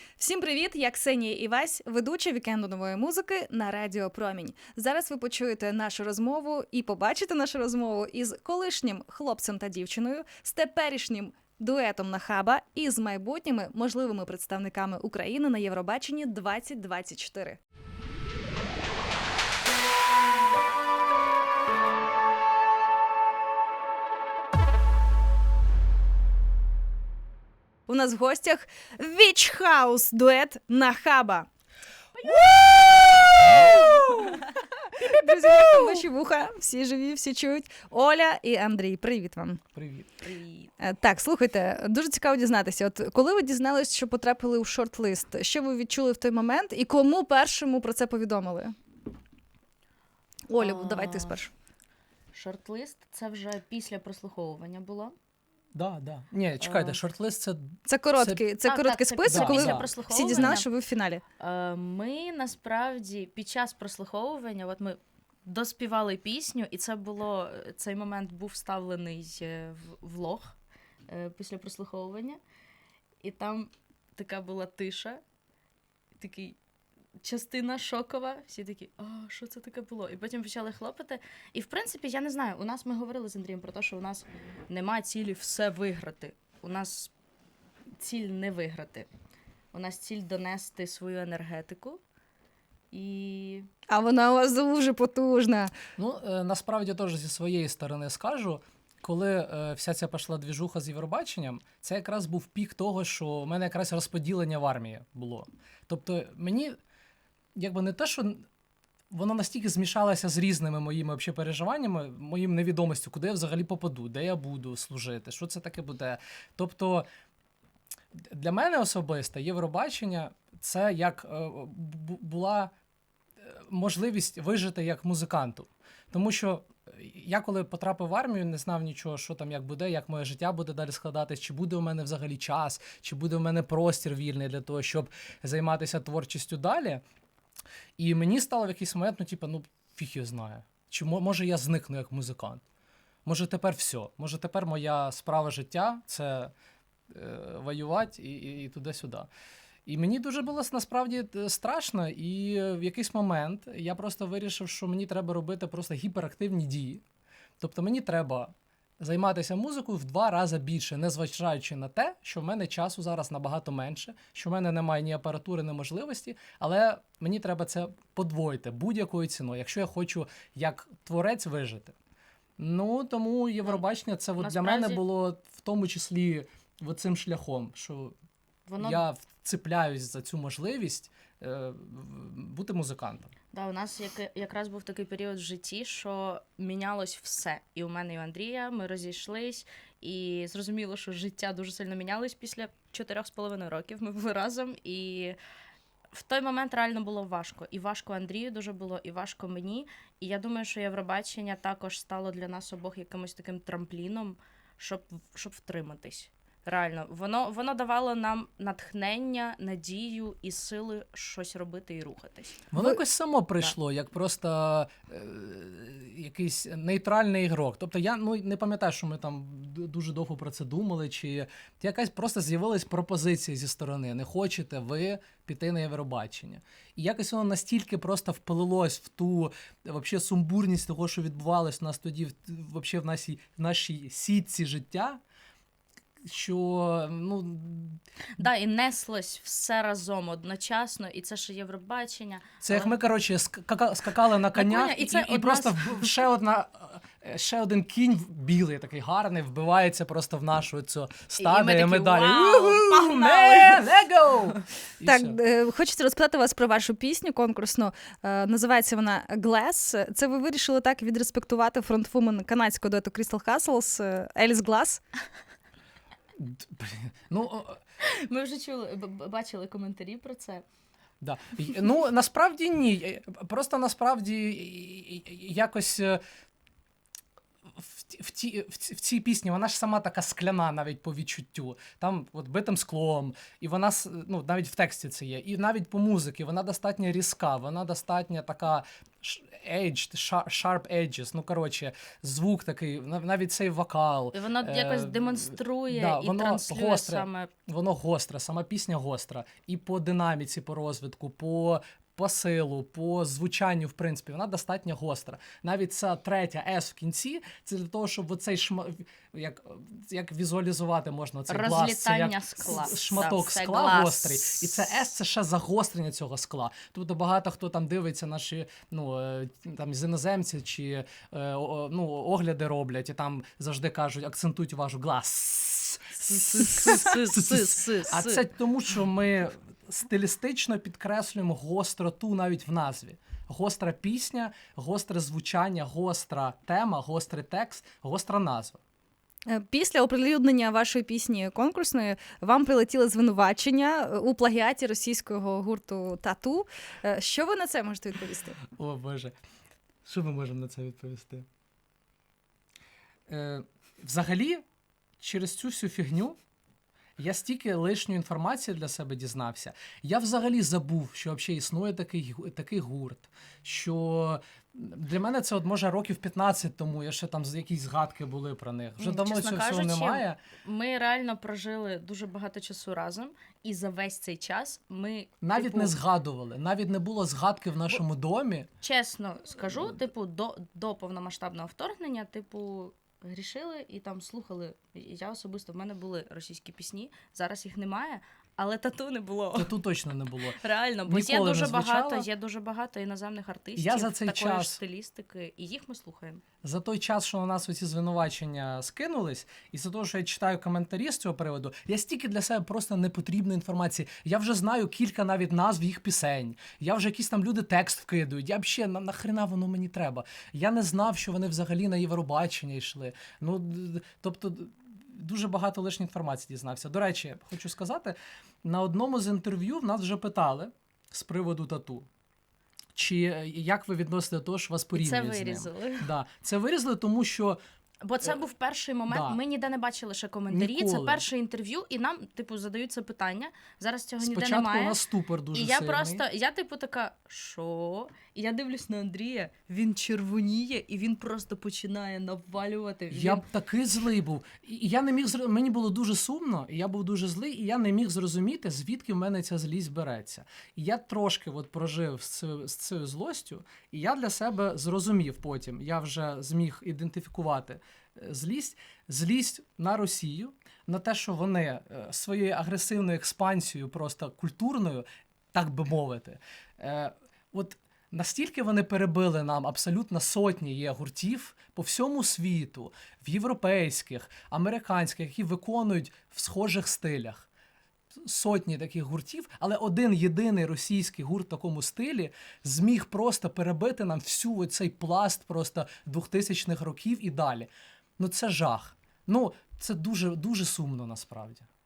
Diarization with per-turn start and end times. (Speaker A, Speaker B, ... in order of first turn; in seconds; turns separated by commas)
Speaker A: 0.2-17.6, Speaker A: 27.9-31.5, Speaker B: 32.2-32.7, Speaker C: 32.7-33.5, Speaker B: 33.4-34.2, Speaker A: 33.5-39.6, Speaker C: 39.8-40.1, Speaker B: 40.2-40.8, Speaker A: 40.8-48.8, Speaker A: 50.5-51.5, Speaker B: 50.6-51.4, Speaker B: 52.3-55.1, Speaker C: 55.8-58.5, Speaker B: 56.6-57.0, Speaker A: 57.9-61.2, Speaker B: 58.6-60.7, Speaker C: 59.3-60.5, Speaker B: 61.4-70.6, Speaker B: 71.1-72.4, Speaker B: 73.2-75.2, Speaker B: 76.2-76.6, Speaker B: 77.2-87.1, Speaker B: 88.0-89.1, Speaker B: 89.7-92.0, Speaker B: 92.9-93.7, Speaker A: 93.9-95.7, Speaker C: 96.0-106.8, Speaker C: 107.6-108.5, Speaker C: 109.1-117.1, Speaker C: 118.2-122.7, Speaker C: 123.5-137.0, Speaker C: 138.0-142.6, Speaker C: 143.2-146.5, Speaker C: 147.1-149.3, Speaker C: 149.9-157.0, Speaker C: 157.6-171.9, Speaker C: 172.6-178.1, Speaker B: 174.4-175.0, Speaker B: 178.7-179.0, Speaker C: 178.8-183.3, Speaker B: 183.5-195.4, Speaker B: 196.1-212.7, Speaker C: 212.7-235.2, Speaker C: 236.2-238.4, Speaker B: 238.4-242.9, Speaker C: 242.6-255.4, Speaker B: 244.3-246.2, Speaker B: 251.4-253.9, Speaker A: 255.0-265.0, Speaker C: 266.4-267.8, Speaker B: 268.0-270.6, Speaker C: 271.2-276.2, Speaker C: 277.8-338.8, Speaker B: 294.3-297.5, Speaker B: 311.5-314.9, Speaker B: 326.2-328.4, Speaker A: 339.5-348.6, Speaker C: 348.7-349.4, Speaker C: 350.1-351.5, Speaker C: 353.3-354.6, Speaker C: 355.2-356.4, Speaker C: 357.2-370.4, Speaker B: 369.0-376.0, Speaker C: 375.4-378.7, Speaker B: 378.8-389.7, Speaker C: 389.6-392.3, Speaker B: 390.6-396.4, Speaker C: 393.8-394.8, Speaker C: 396.6-422.1, Speaker C: 422.9-427.6, Speaker B: 424.9-426.1, Speaker B: 428.0-443.5, Speaker C: 429.1-429.4, Speaker C: 430.5-431.2, Speaker C: 434.2-436.2, Speaker C: 443.1-477.5, Speaker C: 478.2-491.7